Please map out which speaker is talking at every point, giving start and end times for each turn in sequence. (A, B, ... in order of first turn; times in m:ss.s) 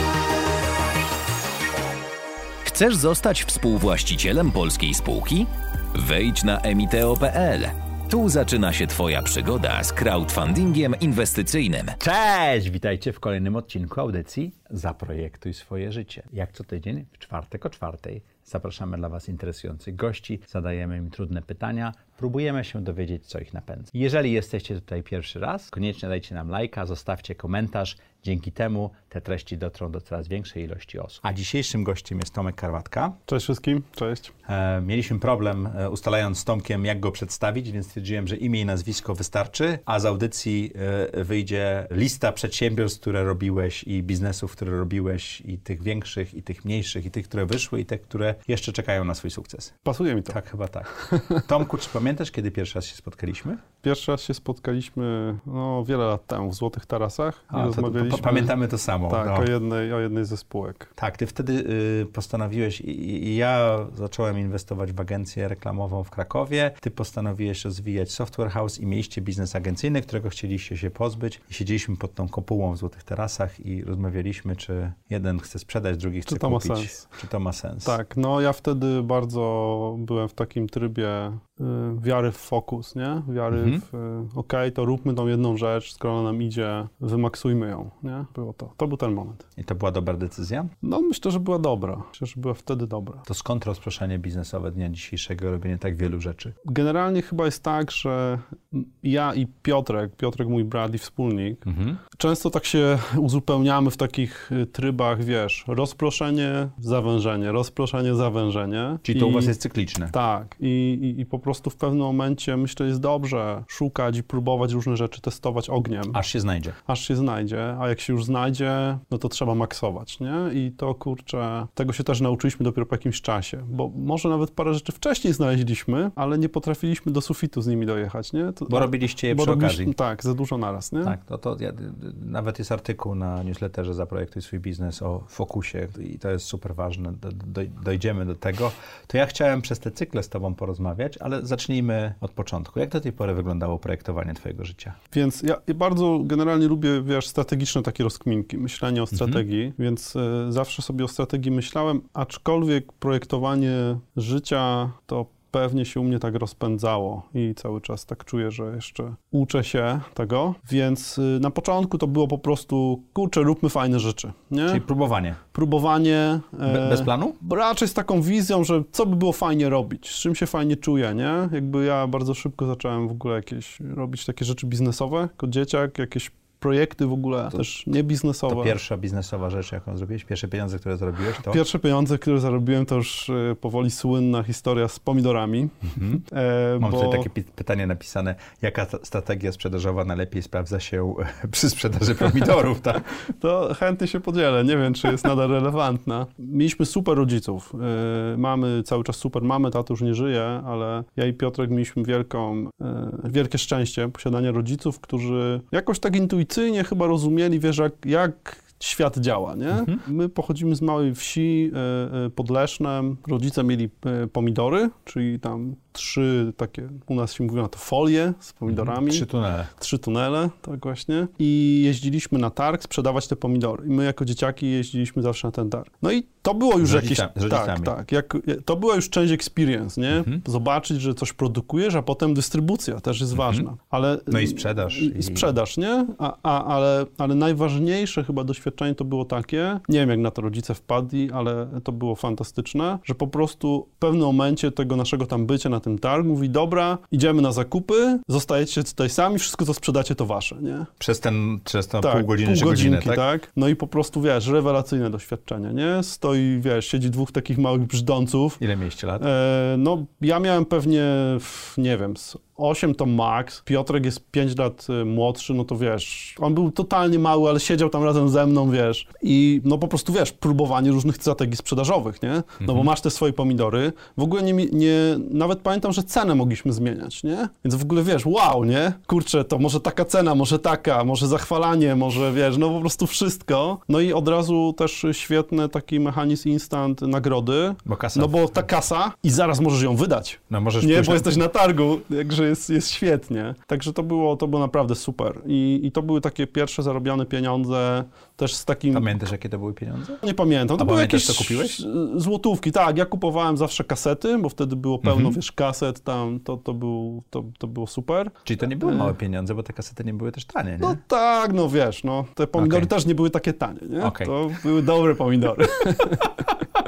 0:02.6-0:12.0 A
0:12.0-0:33.2 B
0:33.3-0:34.3 C
0:34.4-0:49.8 B
0:49.8-0:50.4 C
0:50.3-0:53.6 B
0:50.9-0:51.5 C
0:53.8-0:58.5 C
0:57.5-0:59.5 B
0:59.1-1:00.9 C
1:01.0-1:18.0 B
1:16.2-1:17.0 C
1:17.8-1:29.4 C
1:23.5-1:23.8 B
1:29.6-1:30.7 B
1:30.8-1:33.2 C
1:33.2-1:36.5 B
1:36.6-1:49.5 C
1:41.7-1:42.0 B
1:49.0-1:50.1 B
1:50.1-1:56.2 C
1:56.1-1:56.8 B
1:56.8-2:11.2 C
2:08.7-2:09.9 B
2:11.0-2:25.0 B
2:25.1-2:44.8 C
2:29.1-2:29.4 B
2:44.7-2:45.4 B
2:45.5-2:58.7 C
2:46.6-2:47.4 B
2:58.5-3:01.6 B
3:01.4-3:07.3 C
3:05.9-3:06.2 B
3:06.8-3:13.1 B
3:13.2-4:10.9 C
3:38.7-3:39.7 B
3:46.8-3:48.0 B
3:50.1-3:50.4 B
3:53.3-3:53.7 B
3:54.3-3:55.5 B
4:11.0-4:13.2 B
4:12.0-4:18.6 C
4:18.6-4:19.2 B
4:19.2-4:59.2 C
4:47.8-4:48.6 B
4:50.5-4:51.4 B
4:58.9-5:00.2 B
5:00.2-5:09.1 C
5:00.8-5:01.8 B
5:05.0-5:05.4 B
5:08.4-5:11.0 B
5:10.8-5:16.5 C
5:12.6-5:12.9 B
5:14.0-5:14.3 B